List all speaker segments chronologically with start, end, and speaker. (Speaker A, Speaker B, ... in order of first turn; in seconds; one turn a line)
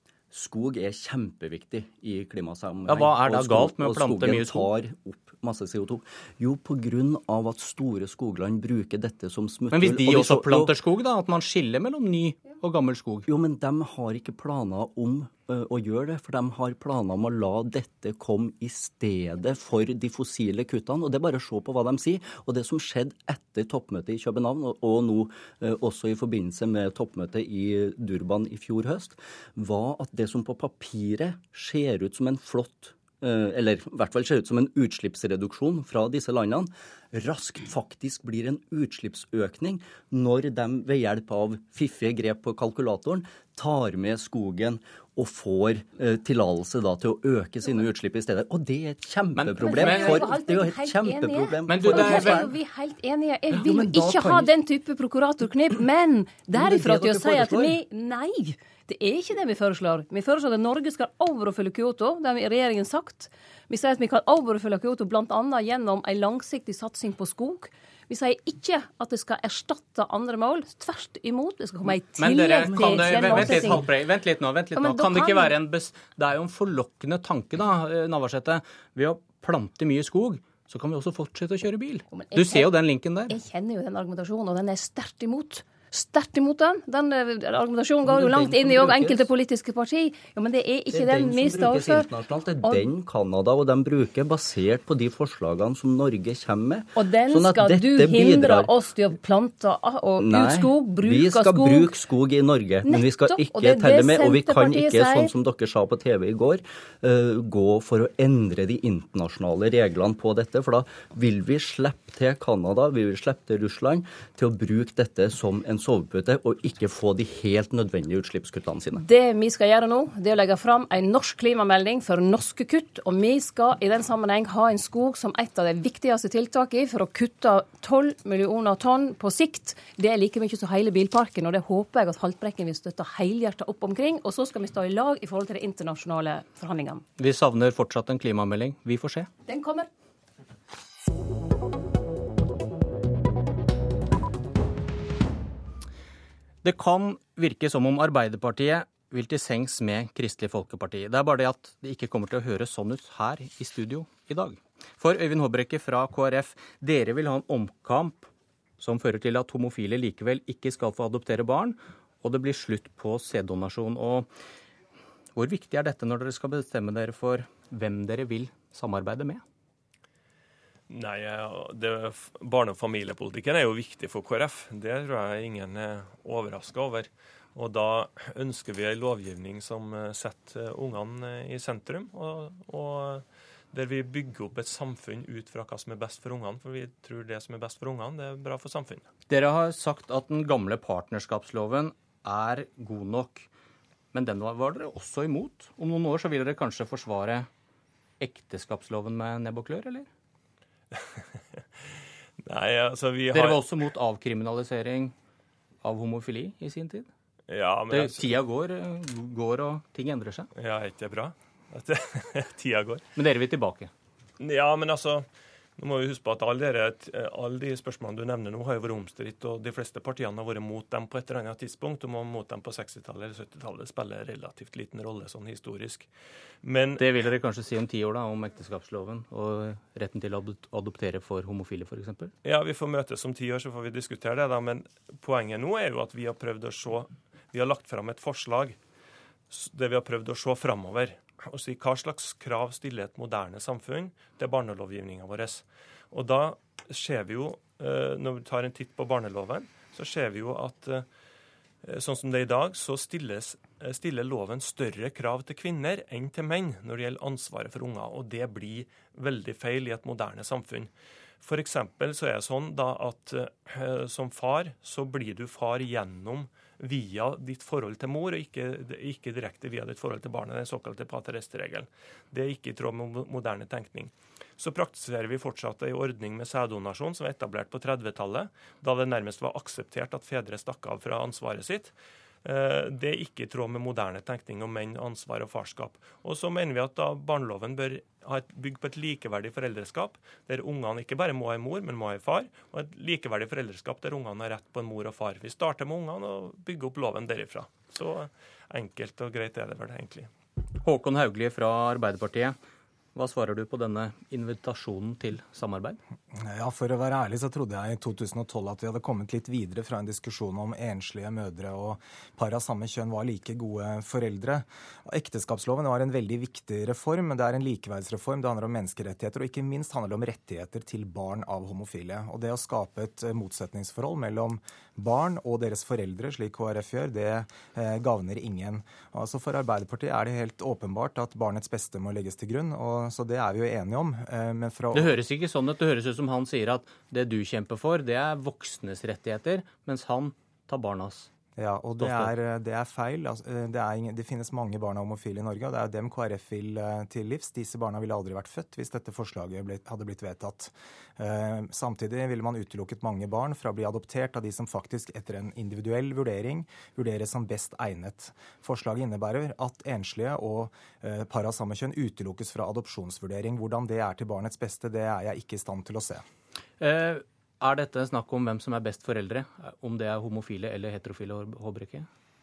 Speaker A: 0.3-10.7
Speaker B: 2.9-4.7
Speaker B: 9.7-13.2
Speaker A: 13.2-52.5
Speaker B: 49.3-50.2
Speaker C: 49.6-74.0
Speaker B: 51.6-52.5
Speaker A: 53.5-54.5
Speaker A: 56.5-57.8
Speaker B: 72.2-83.4
Speaker C: 74.7-75.5
Speaker C: 82.1-92.1
Speaker A: 88.0-89.3
Speaker A: 90.9-98.7
Speaker C: 97.0-102.0
Speaker A: 100.2-119.0
Speaker C: 102.8-105.3
Speaker C: 119.0-137.0
Speaker B: 137.2-139.3
Speaker C: 139.4-139.9
Speaker B: 146.6-164.3
Speaker B: 165.3-169.4
Speaker D: 170.9-189.1
Speaker B: 189.3-193.5
Speaker B: 194.1-197.5
Speaker B: 198.2-200.1
Speaker D: 202.4-203.6
Speaker B: 203.3-205.1
Speaker B: 205.8-207.1
Speaker D: 207.5-208.4
Speaker B: 207.9-210.5
Speaker D: 210.6-213.0
Speaker B: 213.2-213.9
Speaker D: 214.4-215.2
Speaker D: 215.8-226.1
Speaker D: 226.6-227.0
Speaker B: 227.0-232.3
Speaker D: 232.4-238.8
Speaker D: 239.5-251.1
Speaker D: 251.8-260.9
Speaker D: 261.4-281.9
Speaker D: 282.4-300.3
Speaker B: 300.8-302.6
Speaker B: 303.1-306.0
Speaker E: 306.3-335.2
Speaker B: 334.9-341.3
Speaker E: 341.6-366.2
Speaker B: 342.0-342.3
Speaker B: 366.8-372.1